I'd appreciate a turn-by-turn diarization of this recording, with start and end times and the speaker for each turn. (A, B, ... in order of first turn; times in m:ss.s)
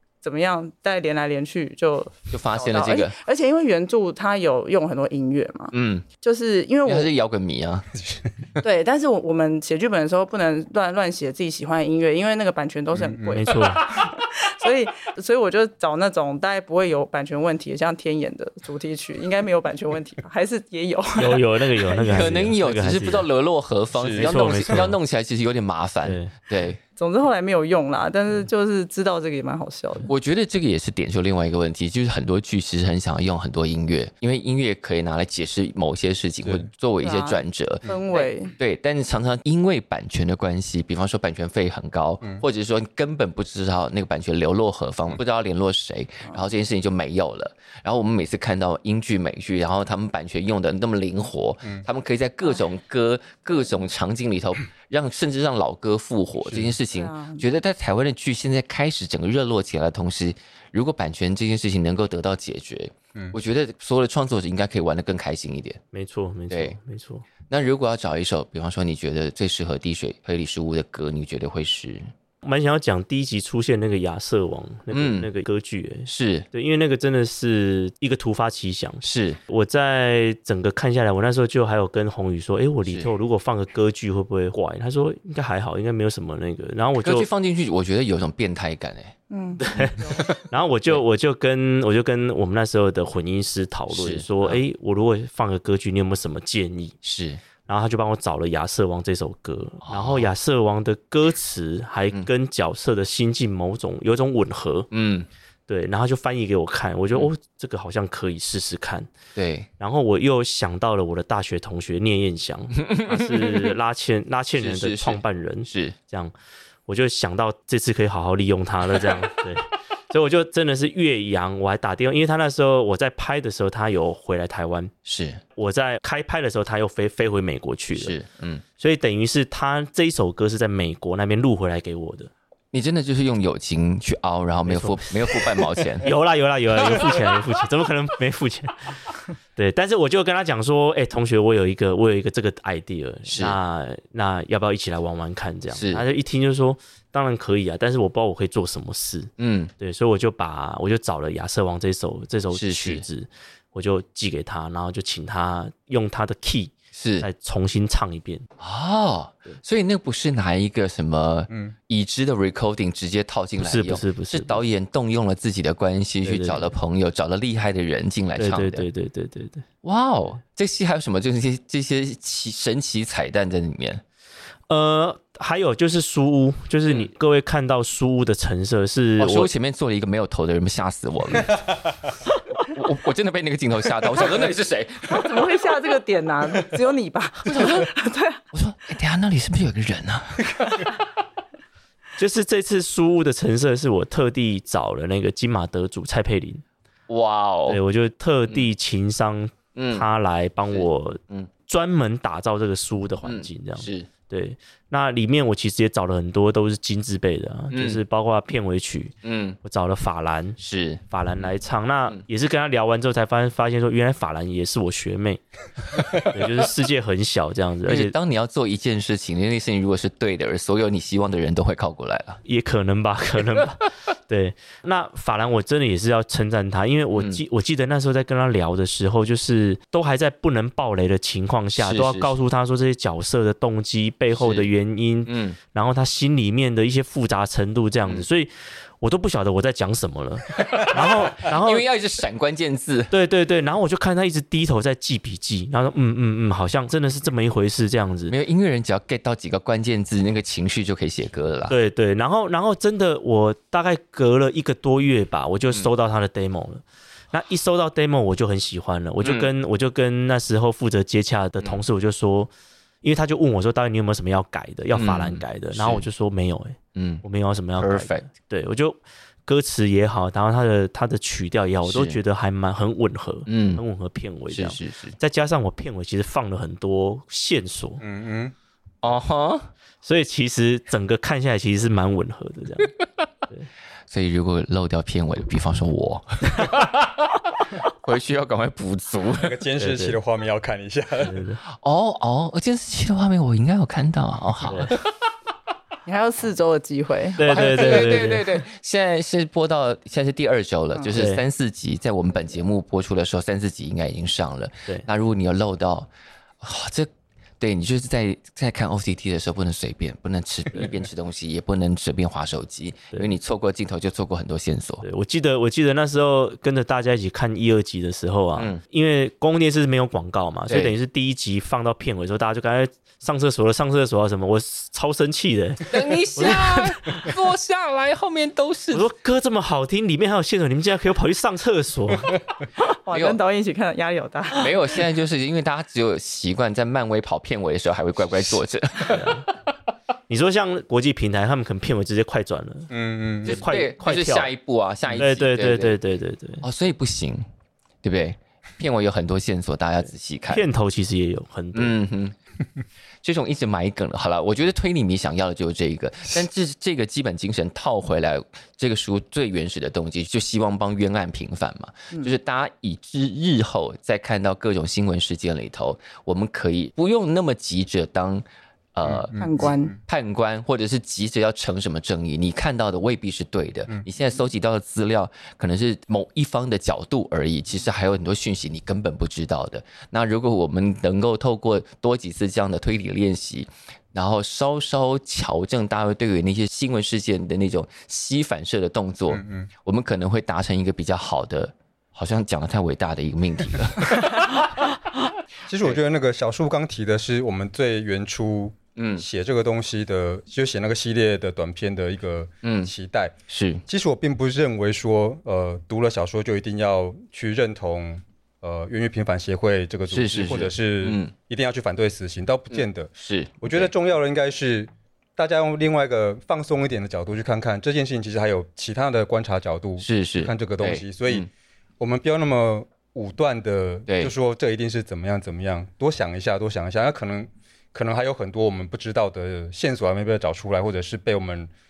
0:00.2-0:07.1 A
0:02.3-0:03.1 B
0:05.7-0:06.0 B
0:06.8-0:07.9 B
0:08.6-0:21.4 A
0:13.0-0:13.4 C
0:13.3-0:13.9 D
0:21.2-0:23.3 D
0:22.0-0:26.8 B
0:23.9-0:24.3 C
0:24.2-0:25.0 D
0:26.0-0:26.3 D
0:27.0-0:30.1 A
0:30.1-1:05.8 B
0:37.0-0:38.5 A
0:56.4-0:56.7 C
0:56.9-0:57.4 A
1:05.9-1:07.3 D
1:06.5-1:06.8 B
1:07.5-1:12.1 B
1:12.4-1:27.3 D
1:14.9-1:15.3 B
1:16.1-1:16.5 B
1:19.0-1:19.4 B
1:27.0-1:29.1 B
1:29.3-1:30.2 A
1:29.6-1:37.0 D
1:29.7-1:31.0 B
1:33.9-1:34.6 B
1:37.0-1:37.4 B
1:37.7-1:44.9 D
1:39.8-1:40.3 B
1:44.9-1:45.3 B
1:45.7-1:49.1 D
1:49.4-1:49.7 B
1:49.8-1:56.3 D
1:52.8-1:53.7 B
1:54.6-1:55.9 B
1:56.9-2:04.9 D
2:05.0-2:05.4 B
2:05.6-2:08.2 D
2:07.9-2:08.6 B
2:08.8-2:12.3 D
2:12.7-2:16.1 B
2:14.7-2:19.0 D
2:19.6-2:38.5 D
2:23.3-2:23.6 B
2:25.7-2:26.0 B
2:29.4-2:29.7 B
2:32.5-2:33.0 B
2:36.9-2:37.3 B
2:38.6-2:48.8 B
2:43.6-2:44.6 D
2:46.2-2:46.7 D
2:48.4-2:49.6 D
2:49.8-2:54.0 B
2:54.7-2:59.5 D
2:59.2-3:01.8 B
3:02.6-3:05.4 B
3:05.0-3:08.4 A
3:07.4-3:07.9 B
3:08.5-3:11.0 B
3:12.2-3:16.6 D
3:17.1-3:17.8 B
3:17.7-3:30.6 D
3:19.8-3:20.0 B
3:20.7-3:21.5 B
3:23.2-3:24.1 B
3:27.7-3:28.0 B
3:29.2-3:29.6 B
3:30.6-3:31.5 B
3:31.1-3:38.1 D
3:37.8-3:42.4 B
3:42.4-4:01.9 D
3:47.1-3:47.4 B
3:51.8-3:52.3 B
3:54.3-3:54.7 B
3:55.3-3:55.6 B
4:00.6-4:03.1 B
4:03.1-4:08.3 D
4:08.3-4:11.7 B
4:11.7-4:22.5 D
4:19.2-4:19.5 B
4:23.0-4:38.0 D
4:24.9-4:26.1 B
4:27.0-4:27.2 B
4:27.8-4:28.2 B
4:31.8-4:32.2 B
4:33.5-4:33.8 B
4:34.5-4:35.2 B
4:38.0-4:38.5 C
4:39.0-4:39.7 B
4:40.0-4:43.0 D
4:44.1-4:49.6 B
4:49.4-4:51.4 C
4:49.8-4:50.2 D
4:51.2-4:51.6 D
4:51.8-4:55.0 B
4:54.6-4:55.0 D
4:56.0-4:58.0 A
4:57.4-4:58.5 D
4:57.4-5:06.1 B
5:01.1-5:01.4 D
5:06.6-5:07.1 B
5:07.6-5:15.0 B
5:10.7-5:11.0 D
5:15.0-5:27.3 D
5:20.7-5:20.9 B
5:25.8-5:29.0 B
5:28.9-5:32.4 D
5:32.9-5:34.7 A
5:33.1-5:33.4 B
5:34.5-5:39.4 B
5:39.0-5:39.4 D
5:40.3-5:42.9 D
5:42.9-5:43.6 C
5:43.4-5:44.5 D
5:43.4-5:46.0 B
5:45.1-5:46.6 D
5:46.6-5:47.4 B
5:48.0-5:50.6 B
5:50.5-5:52.0 D
5:51.7-5:52.3 B
5:53.2-6:34.7 B
6:09.0-6:09.9 C
6:09.4-6:09.9 A
6:29.3-6:29.7 C
6:35.7-6:43.3 C
6:39.0-6:39.2 B
6:42.6-6:42.9 B
6:43.5-6:43.8 B
6:43.9-7:01.5 C
6:50.1-6:51.3 B
6:52.7-6:53.9 B
7:00.0-7:01.5 B
7:02.0-7:11.7 C